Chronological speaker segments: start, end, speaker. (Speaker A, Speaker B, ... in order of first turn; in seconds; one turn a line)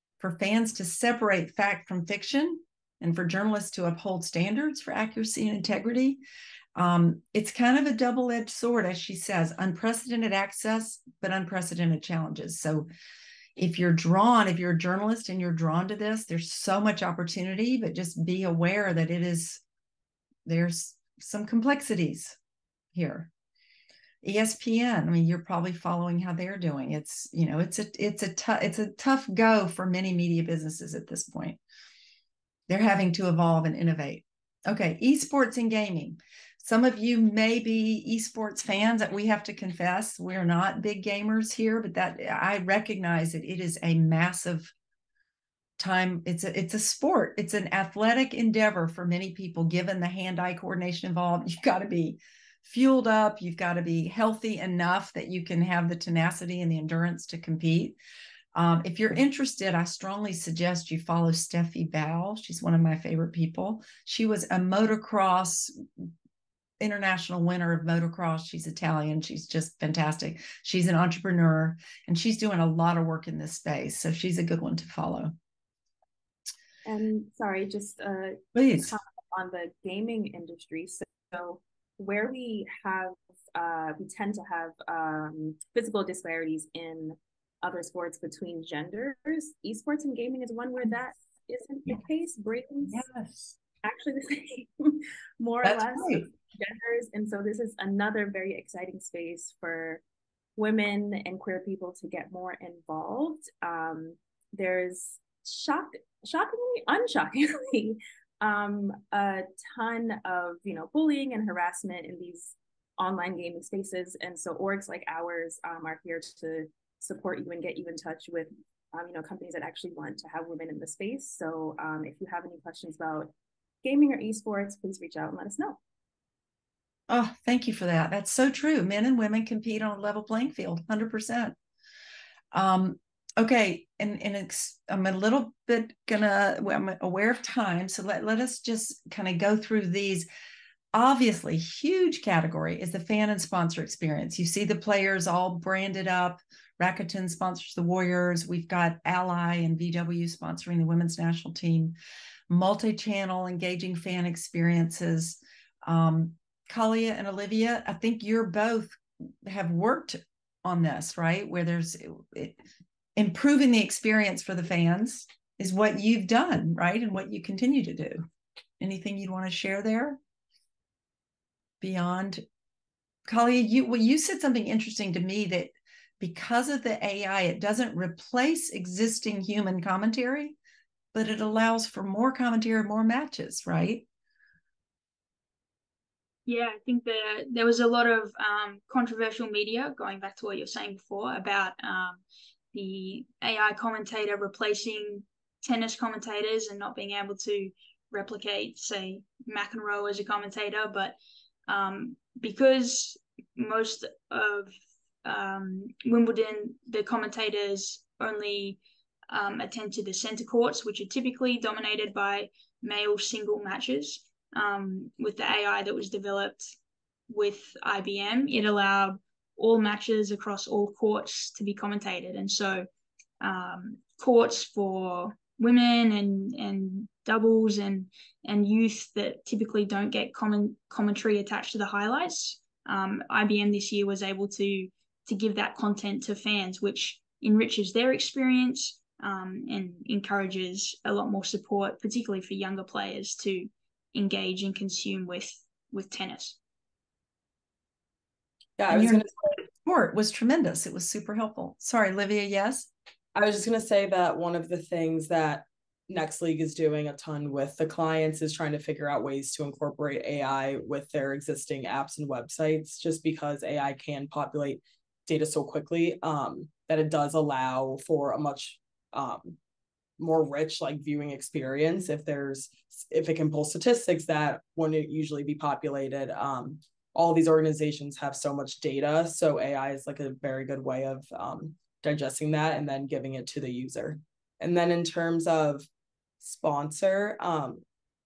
Speaker A: 0.2-6.2
Speaker A: 6.8-12.9
Speaker A: 13.6-19.6
Speaker A: 20.5-22.4
Speaker A: 22.9-23.3
Speaker A: 24.2-31.6
Speaker A: 32.7-44.7
Speaker A: 45.8-58.0
Speaker A: 58.5-66.1
Speaker A: 66.8-75.3
Speaker B: 76.8-93.0
Speaker A: 78.5-78.9
Speaker A: 92.9-93.5
Speaker B: 93.8-100.0
Speaker A: 95.6-96.3
Speaker B: 100.6-123.3
Speaker B: 123.8-125.8
Speaker A: 127.1-131.6
Speaker A: 132.5-140.3
Speaker A: 140.9-151.9
Speaker A: 152.5-162.6
Speaker A: 163.2-168.2
Speaker A: 168.8-170.2
Speaker A: 171.8-172.4
Speaker A: 173.3-180.6
Speaker A: 181.1-184.1
Speaker C: 186.5-192.2
Speaker C: 192.7-204.7
Speaker C: 205.2-216.7
Speaker C: 217.3-222.9
Speaker C: 223.4-246.6
Speaker D: 248.8-249.3
Speaker A: 248.9-252.9
Speaker D: 253.3-269.6
Speaker D: 270.2-285.9
Speaker D: 286.4-287.8